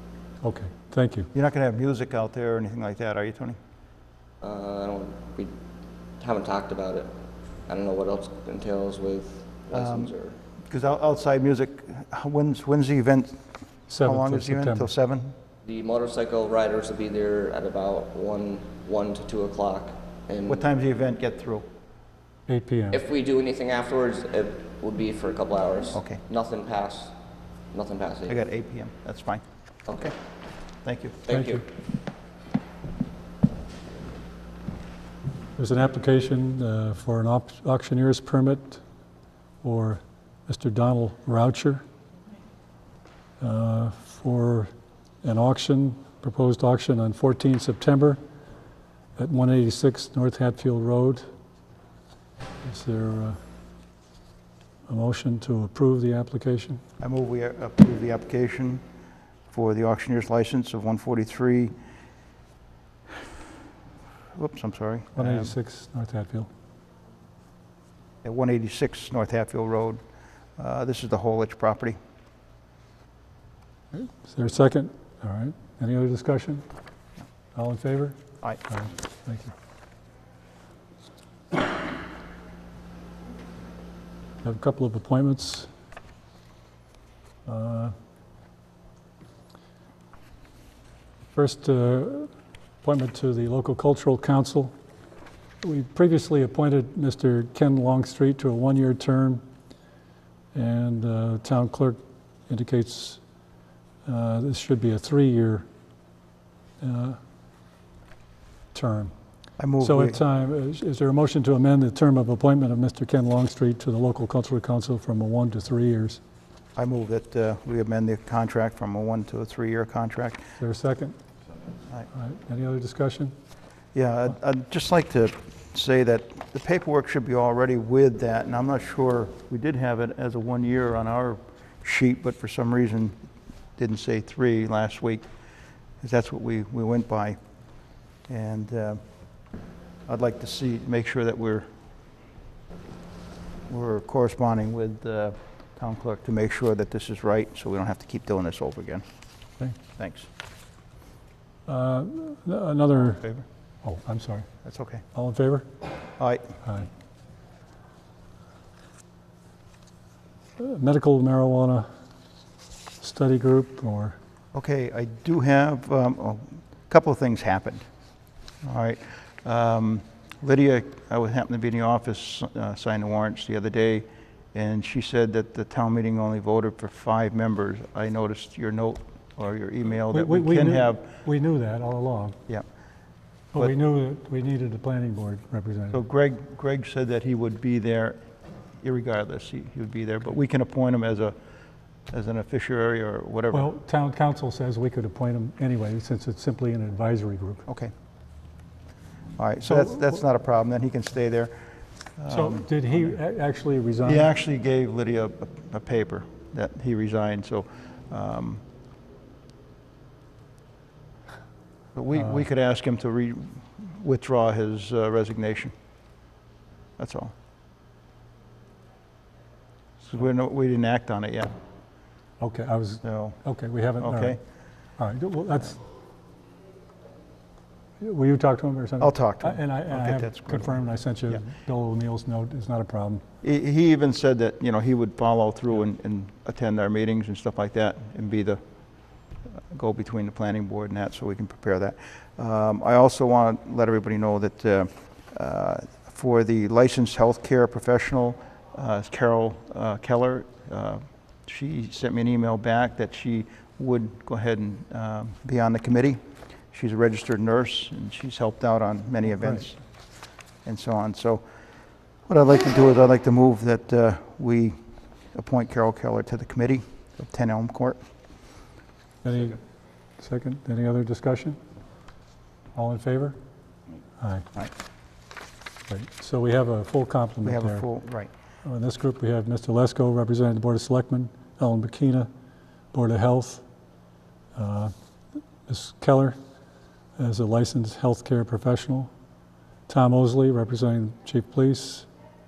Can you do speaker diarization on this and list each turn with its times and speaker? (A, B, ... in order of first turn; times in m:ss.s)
0:00.4-0:01.3 A
0:01.3-0:03.6 B
0:04.4-0:05.5 C
0:06.2-0:07.1 C
0:07.7-0:10.4 C
0:09.7-0:10.1 B
0:10.7-0:15.3 B
0:13.9-0:14.9 A
0:15.6-0:20.6 C
0:20.5-0:21.6 B
0:22.5-0:23.0 A
0:22.9-0:27.1 C
0:25.9-0:26.2 B
0:27.7-0:28.4 C
0:28.3-0:29.4 B
0:29.9-0:30.1 C
0:30.8-0:31.2 B
0:31.3-0:31.6 C
0:31.3-0:31.6 A
0:35.6-0:38.8 A
0:39.6-0:41.8 A
0:43.4-0:44.7 A
0:45.2-0:48.2 A
0:49.2-0:51.2 A
0:52.6-0:53.4 A
0:54.9-0:56.8 A
0:57.0-0:58.8 B
0:59.5-1:01.7 B
1:04.3-1:05.6 B
1:05.2-1:06.5 A
1:08.2-1:10.0 B
1:10.6-1:12.0 B
1:14.2-1:16.6 A
1:17.6-1:19.5 A
1:24.4-1:25.7 A
1:27.4-1:27.9 A
1:31.3-1:32.3 A
1:32.8-1:34.7 A
1:35.6-1:39.4 A
1:40.5-1:43.2 A
1:44.0-1:45.7 A
1:46.8-1:47.2 A
1:48.7-1:49.1 A
1:49.6-1:50.2 B
1:49.8-1:56.2 A
1:56.8-2:00.5 B
2:00.6-2:01.1 A
2:02.1-2:03.3 A
2:03.9-2:13.2 B
2:13.8-2:15.2 B
2:16.0-2:17.4 B
2:18.3-2:19.0 B
2:20.1-2:21.7 B
2:23.7-2:29.0 B
2:29.8-2:30.3 B
2:31.7-2:33.2 A
2:33.2-2:33.4 B
2:33.8-2:34.5 A
2:34.6-2:35.0 B
2:35.1-2:35.7 A
2:36.2-2:36.5 B
2:36.6-2:36.9 A
2:40.6-2:41.9 A
2:43.0-2:44.2 A
2:44.5-2:47.8 B
2:48.6-3:01.0 B
3:00.1-3:02.4 A
3:03.5-3:06.0 A
3:05.9-3:08.2 B
3:08.8-3:11.4 B
3:12.1-3:13.7 B
3:13.5-3:17.6 A
3:19.4-3:21.6 B
3:19.7-3:20.1 A
3:22.2-3:23.1 B
3:22.3-3:24.3 A
3:24.0-3:28.6 B
3:31.9-3:35.7 B
3:37.0-3:37.3 B
3:40.0-3:41.5 B
3:42.4-3:44.4 A
3:43.0-3:43.4 B
3:44.0-3:44.4 B
3:45.0-3:45.8 A
3:48.0-3:53.2 A
3:49.0-3:50.8 B
3:53.4-3:58.6 B
3:59.7-4:16.2 B
4:16.7-4:19.8 B
4:20.6-4:21.4 B
4:22.3-4:24.8 B
4:25.3-4:28.0 B
4:29.2-4:29.6 A
4:30.2-4:31.6 A
4:32.8-4:33.4 A
4:34.2-4:34.6 A
4:35.9-4:37.8 A
4:37.4-4:38.3 B
4:38.6-4:42.3 A
4:42.9-4:43.6 A
4:44.6-4:44.9 A
4:45.6-4:46.4 A
4:47.2-4:49.1 A
4:49.9-4:52.1 A